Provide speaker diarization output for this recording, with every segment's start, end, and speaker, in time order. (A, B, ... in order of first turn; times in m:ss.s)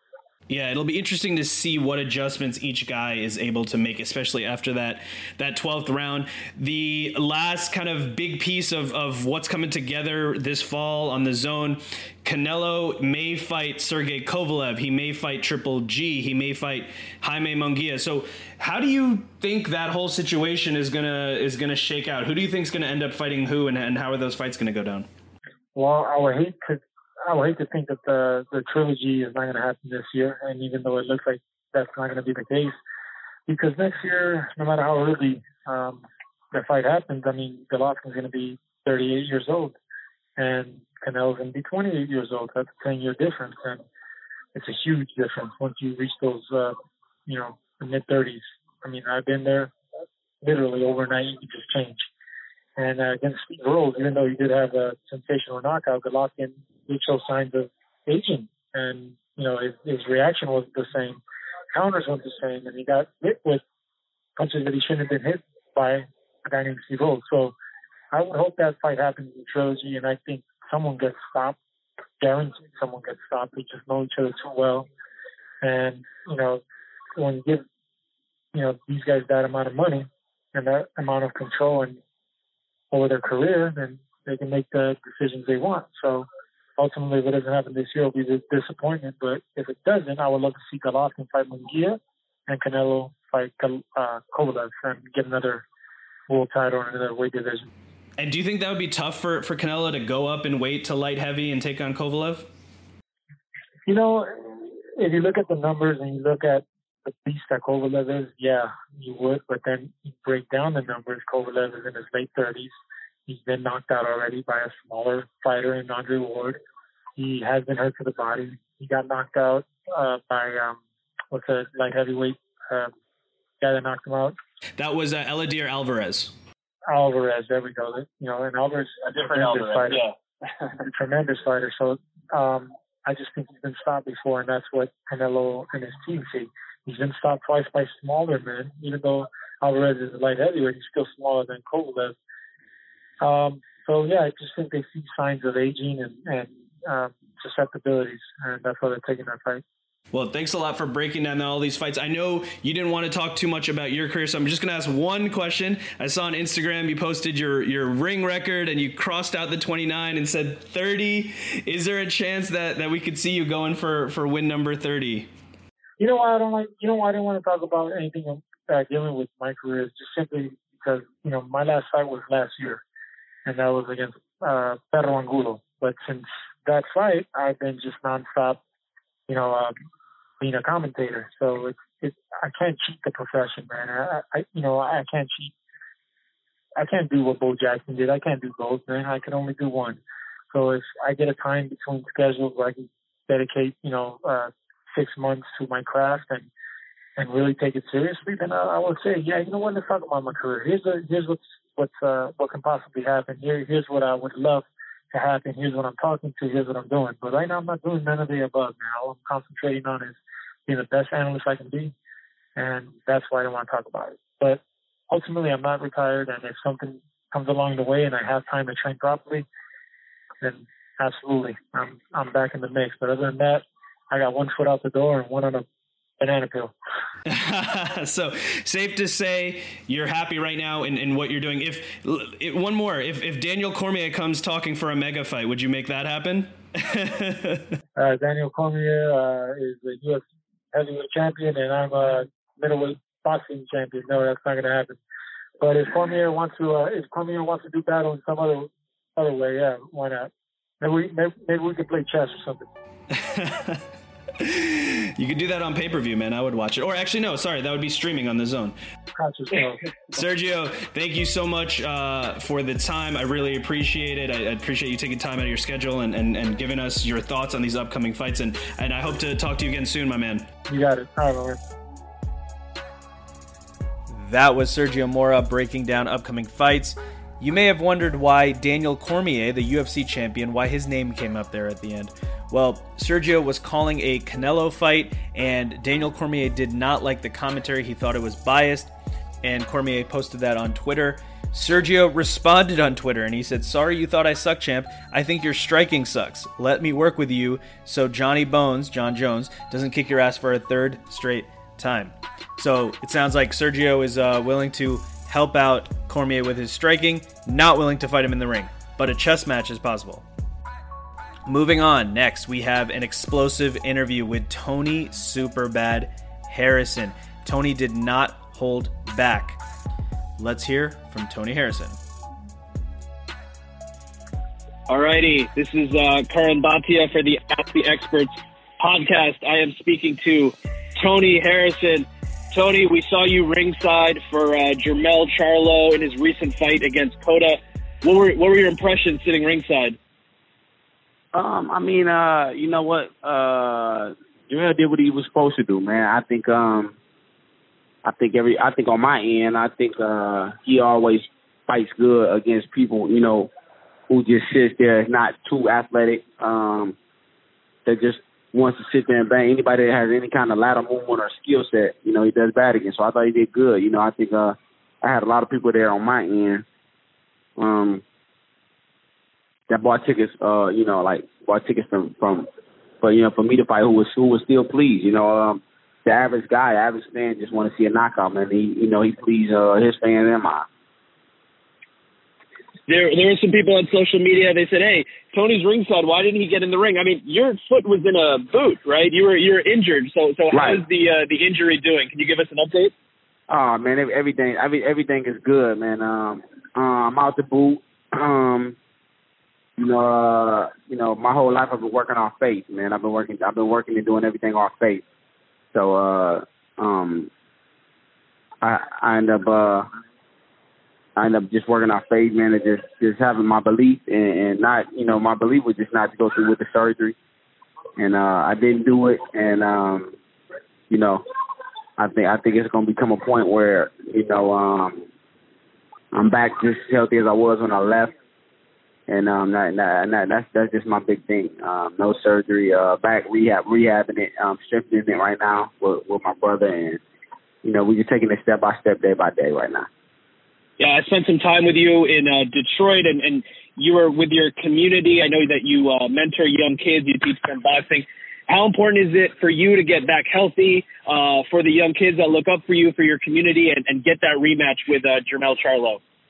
0:00.5-0:25.1 A
0:25.7-0:32.8 B
0:33.5-0:39.8 B
0:40.4-0:43.8 B
0:44.5-0:46.7 B
0:47.2-0:49.7 B
0:50.4-0:52.1 B
0:52.8-1:01.2 B
1:01.7-1:03.6 B
1:04.4-1:07.5 B
1:08.1-1:11.6 B
1:12.2-1:14.9 B
1:15.6-1:16.6 B
1:17.2-1:17.6 B
1:18.5-1:22.0 B
1:22.9-1:35.6 B
1:36.3-1:37.7 B
1:38.2-1:42.5 A
1:43.9-1:52.7 B
1:53.3-1:56.6 B
1:57.2-2:02.9 B
2:03.6-2:04.4 B
2:04.8-2:06.3 A
2:06.9-2:10.0 B
2:09.1-2:10.1 C
2:10.9-2:22.2 B
2:23.2-2:29.6 B
2:30.1-2:45.3 A
2:46.0-2:52.8 B
2:53.4-2:58.6 B
2:59.3-2:59.7 B
3:00.4-3:05.5 B
3:06.8-3:10.0 B
3:10.5-3:16.5 B
3:17.2-3:31.9 B
3:32.6-3:39.4 B
3:40.4-3:45.6 B
3:46.2-3:46.7 B
3:47.2-3:57.7 A
3:58.0-4:05.0 B
4:05.6-4:12.7 B
4:13.1-4:13.8 A
4:14.4-4:18.7 A
4:19.2-4:19.8 B
4:20.2-4:30.4 A
4:30.7-4:31.6 B
4:34.1-4:48.9 A
4:49.4-5:10.2 A
5:11.4-5:19.6 A
5:20.4-5:22.0 A
5:24.9-5:40.0 C
5:41.3-5:46.9 D
5:48.0-5:53.5 D
5:54.1-5:57.0 D
5:57.9-6:06.6 D
6:07.6-6:08.0 D
6:09.7-6:12.5 D
6:13.0-6:20.6 D
6:22.9-6:32.9 C
6:30.5-6:30.8 D
6:33.5-6:38.8 D
6:39.8-6:45.0 D
6:45.7-6:47.3 D
6:48.6-6:49.9 D
6:51.2-6:57.2 D
6:58.0-7:00.1 D
7:00.9-7:01.2 D
7:02.0-7:05.0 D
7:06.1-7:08.1 D
7:09.1-7:17.0 D
7:17.6-7:19.9 D
7:20.8-7:36.0 C